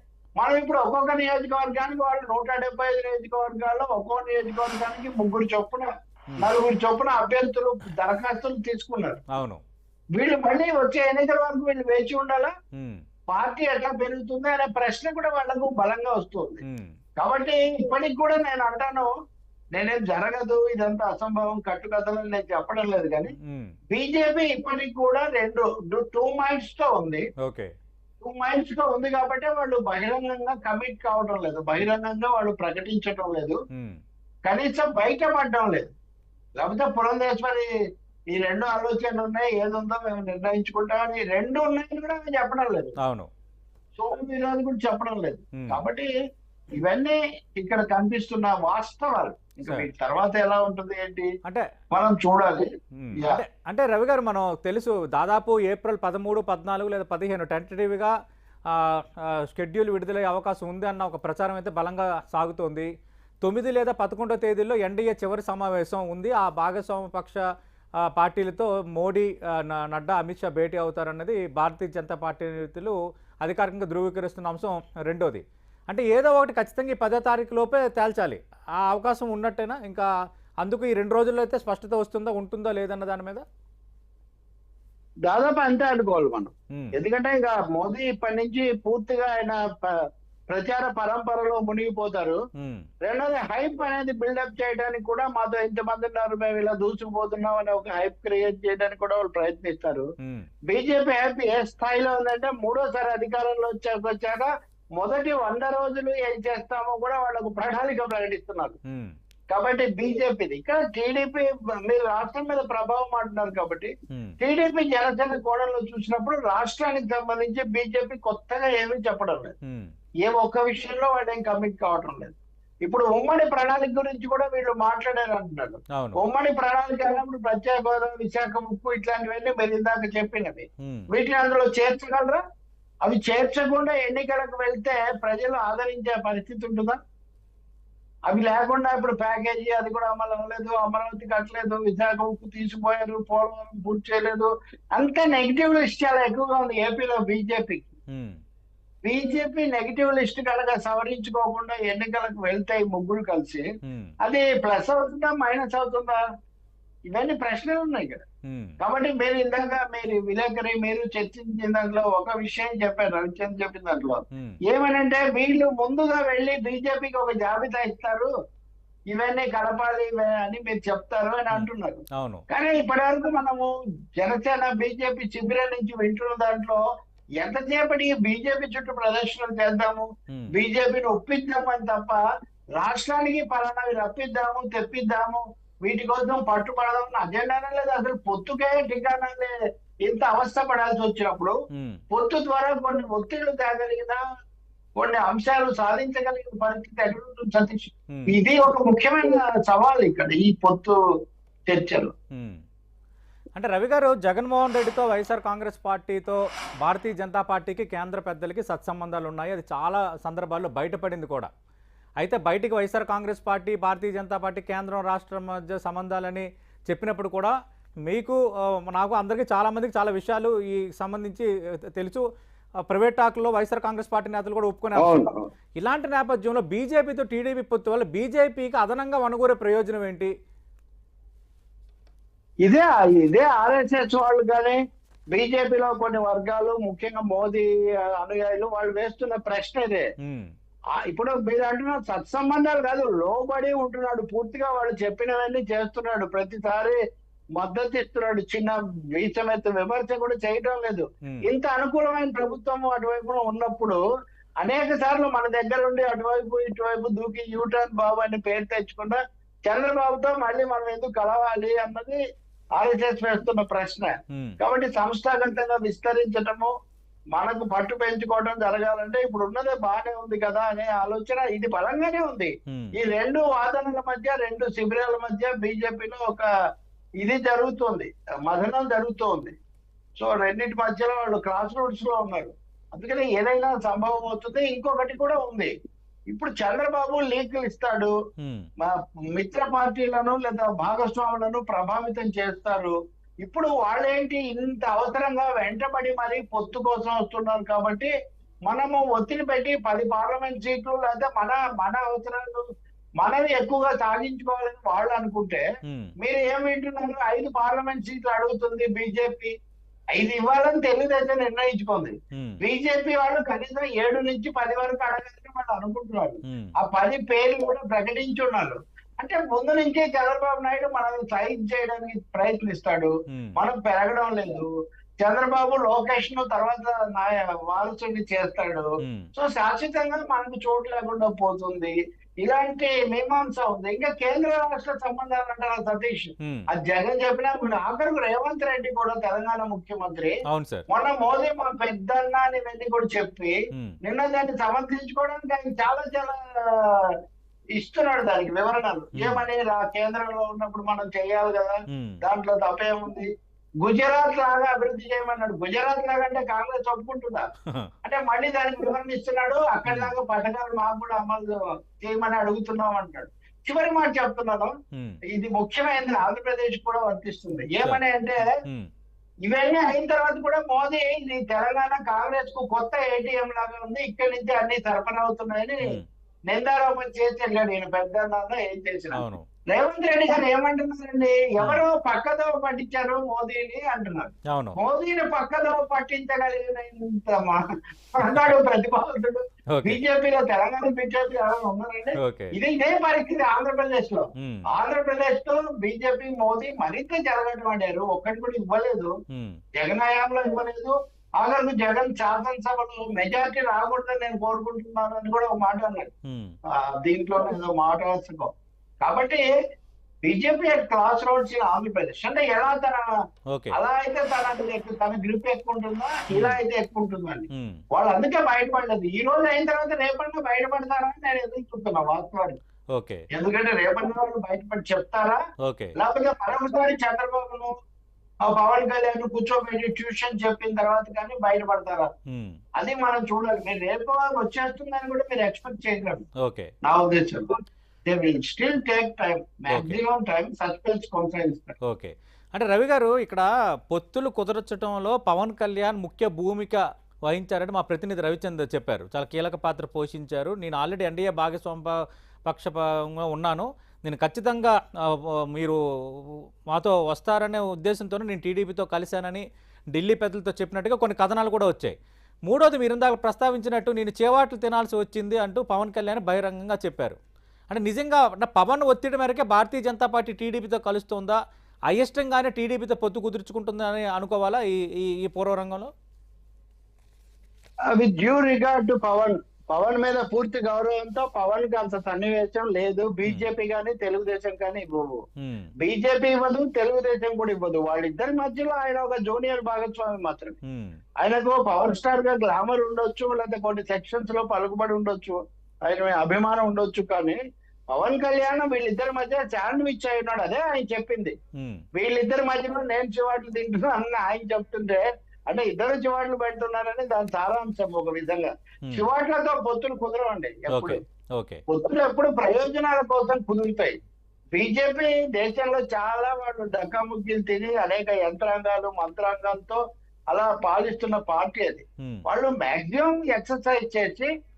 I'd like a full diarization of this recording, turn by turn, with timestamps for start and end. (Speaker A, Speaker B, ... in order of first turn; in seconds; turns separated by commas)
Speaker A: 0.4-5.9, Speaker A: 6.4-9.2, Speaker B: 9.3-9.6, Speaker A: 10.2-12.5, Speaker A: 13.3-16.6, Speaker B: 16.6-16.9, Speaker A: 17.2-19.1, Speaker A: 19.7-23.3, Speaker B: 23.4-23.7, Speaker A: 23.9-27.2, Speaker B: 27.4-27.7, Speaker A: 28.2-33.6, Speaker B: 33.7-34.0, Speaker A: 34.4-35.9, Speaker A: 36.6-37.7, Speaker A: 38.3-42.9, Speaker B: 43.0-43.3, Speaker A: 44.0-46.1, Speaker A: 46.8-51.3, Speaker A: 51.9-52.6, Speaker B: 53.0-58.1, Speaker A: 53.2-53.4, Speaker B: 58.7-62.9, Speaker B: 63.4-67.4, Speaker B: 68.0-80.1, Speaker B: 80.6-83.4, Speaker A: 85.3-89.9, Speaker A: 90.5-92.4, Speaker B: 92.6-92.8, Speaker A: 93.0-100.1, Speaker A: 100.7-108.8, Speaker A: 109.5-119.5, Speaker B: 114.1-114.3, Speaker A: 120.2-122.3, Speaker A: 122.8-132.4, Speaker A: 133.0-137.0, Speaker A: 138.3-147.9, Speaker B: 148.1-148.4, Speaker A: 149.0-153.6, Speaker B: 153.8-154.1, Speaker A: 154.2-156.2, Speaker A: 157.1-158.2, Speaker B: 158.4-158.8, Speaker A: 158.8-168.3, Speaker B: 164.3-164.6, Speaker A: 169.1-176.8, Speaker B: 172.2-172.4, Speaker A: 177.4-182.2, Speaker A: 182.8-189.5, Speaker A: 190.1-191.6, Speaker B: 191.7-192.0, Speaker A: 192.1-194.2, Speaker A: 195.0-200.9, Speaker A: 201.7-202.1, Speaker B: 202.3-202.6, Speaker B: 203.6-211.5, Speaker B: 212.2-217.5, Speaker B: 218.1-222.2, Speaker B: 222.9-225.2, Speaker A: 224.9-225.5, Speaker B: 225.8-230.3, Speaker A: 232.6-234.8, Speaker A: 235.3-240.1, Speaker B: 240.2-240.5, Speaker A: 241.1-247.0, Speaker A: 247.6-254.0, Speaker A: 254.6-262.2, Speaker A: 262.8-266.7, Speaker B: 264.3-264.6, Speaker A: 267.3-276.5, Speaker A: 277.2-279.6, Speaker A: 280.2-285.7, Speaker A: 286.3-288.1, Speaker B: 288.4-288.7, Speaker A: 288.8-298.1, Speaker A: 298.7-302.6, Speaker A: 303.2-305.6, Speaker B: 305.9-306.1, Speaker A: 306.2-309.5, Speaker A: 310.1-324.6, Speaker B: 312.3-312.6, Speaker A: 325.2-340.3, Speaker B: 329.0-329.3, Speaker B: 336.4-336.6, Speaker B: 340.5-340.9, Speaker A: 340.9-346.8, Speaker A: 347.8-353.3, Speaker B: 349.1-349.4, Speaker B: 351.9-352.2, Speaker A: 353.8-357.5, Speaker A: 358.0-364.7, Speaker B: 359.8-360.1, Speaker B: 364.9-365.2, Speaker A: 365.3-368.6, Speaker B: 368.6-368.9, Speaker A: 369.4-376.0, Speaker A: 376.5-399.1, Speaker B: 379.1-379.5, Speaker B: 384.5-384.8, Speaker B: 388.2-388.5, Speaker B: 389.7-390.0, Speaker B: 392.2-392.5, Speaker B: 394.4-394.6, Speaker B: 399.3-399.6, Speaker A: 399.8-406.1, Speaker B: 406.2-406.5, Speaker A: 407.0-409.5, Speaker A: 410.2-413.0, Speaker A: 413.7-422.6, Speaker B: 416.3-416.6, Speaker B: 417.5-417.8, Speaker B: 422.9-423.2, Speaker A: 423.3-425.4, Speaker B: 425.6-425.9, Speaker A: 426.0-427.7, Speaker A: 428.4-432.1, Speaker B: 432.3-432.6, Speaker A: 432.8-436.2, Speaker B: 436.4-436.7, Speaker A: 436.8-441.8, Speaker B: 439.7-440.0, Speaker B: 441.8-461.9, Speaker B: 462.5-467.2, Speaker B: 467.7-471.4, Speaker B: 471.9-475.9, Speaker A: 477.9-485.2, Speaker B: 485.4-485.7, Speaker A: 485.8-490.6, Speaker B: 490.6-491.0, Speaker A: 491.2-497.4, Speaker A: 497.9-501.3, Speaker A: 501.9-511.0, Speaker B: 510.7-511.6, Speaker A: 511.7-513.9, Speaker A: 514.5-519.8, Speaker A: 520.3-524.3